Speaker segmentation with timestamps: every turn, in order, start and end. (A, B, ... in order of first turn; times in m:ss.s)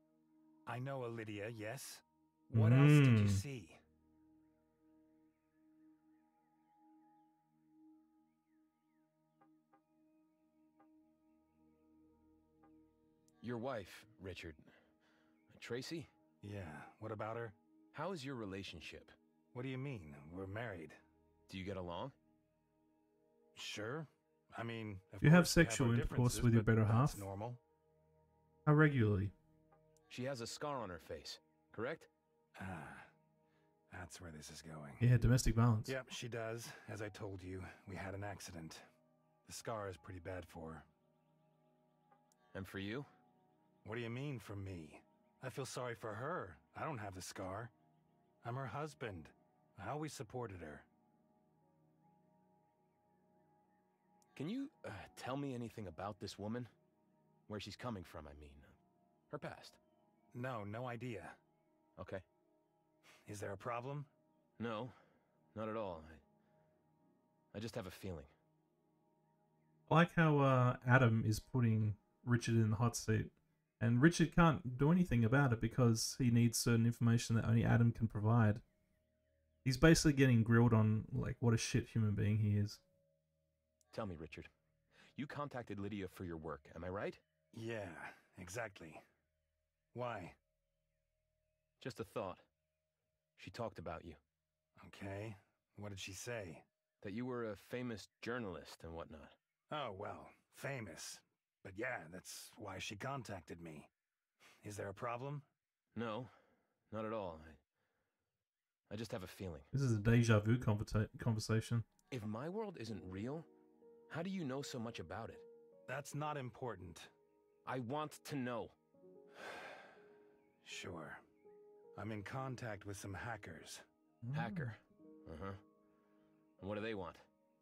0:00.7-0:03.8 A
0:02.5-0:03.4 B
0:13.4-0:14.7 C
0:15.5-0:16.1 C
0:16.4-0:17.6 A
0:17.9-0:19.1 C
0:19.5-0:21.0 A
0:21.5-0:22.1 C
0:23.6-0:27.6 A
0:25.2-0:27.2 B
0:28.7-0:29.3 B
0:30.1-0:32.1 C
0:32.6-0:33.1 A
0:33.9-0:35.1 A
0:35.0-0:36.0 B
0:35.8-0:38.8 A
0:39.4-0:40.9 A
0:42.5-0:43.1 C
0:43.8-0:47.7 A
0:48.4-0:50.9 A
0:54.4-0:56.7 C
0:57.5-0:58.7 C
0:59.3-0:59.8 C
1:00.3-1:01.4 A
1:02.0-1:02.2 C
1:03.2-1:04.1 A
1:04.6-1:05.0 C
1:05.5-1:06.2 C
1:07.5-1:08.3 C
1:09.9-1:18.6 B
1:19.6-1:22.8 B
1:23.9-1:24.5 C
1:25.1-1:27.2 C
1:27.5-1:29.0 A
1:29.9-1:30.4 A
1:31.8-1:32.4 C
1:33.4-1:34.2 C
1:34.8-1:36.6 A
1:37.0-1:39.4 C
1:39.7-1:43.9 A
1:44.6-1:45.5 A
1:46.0-1:46.3 C
1:46.9-1:47.6 C
1:48.9-1:49.7 C
1:49.7-1:51.9 B
1:52.1-1:53.5 C
1:54.1-1:55.5 C
1:55.9-1:57.1 A
1:57.6-1:58.8 C
1:59.4-1:59.9 A
2:00.6-2:01.2 A
2:02.0-2:03.8 A
2:04.2-2:04.7 B
2:04.3-2:05.6 C
2:06.6-2:07.2 C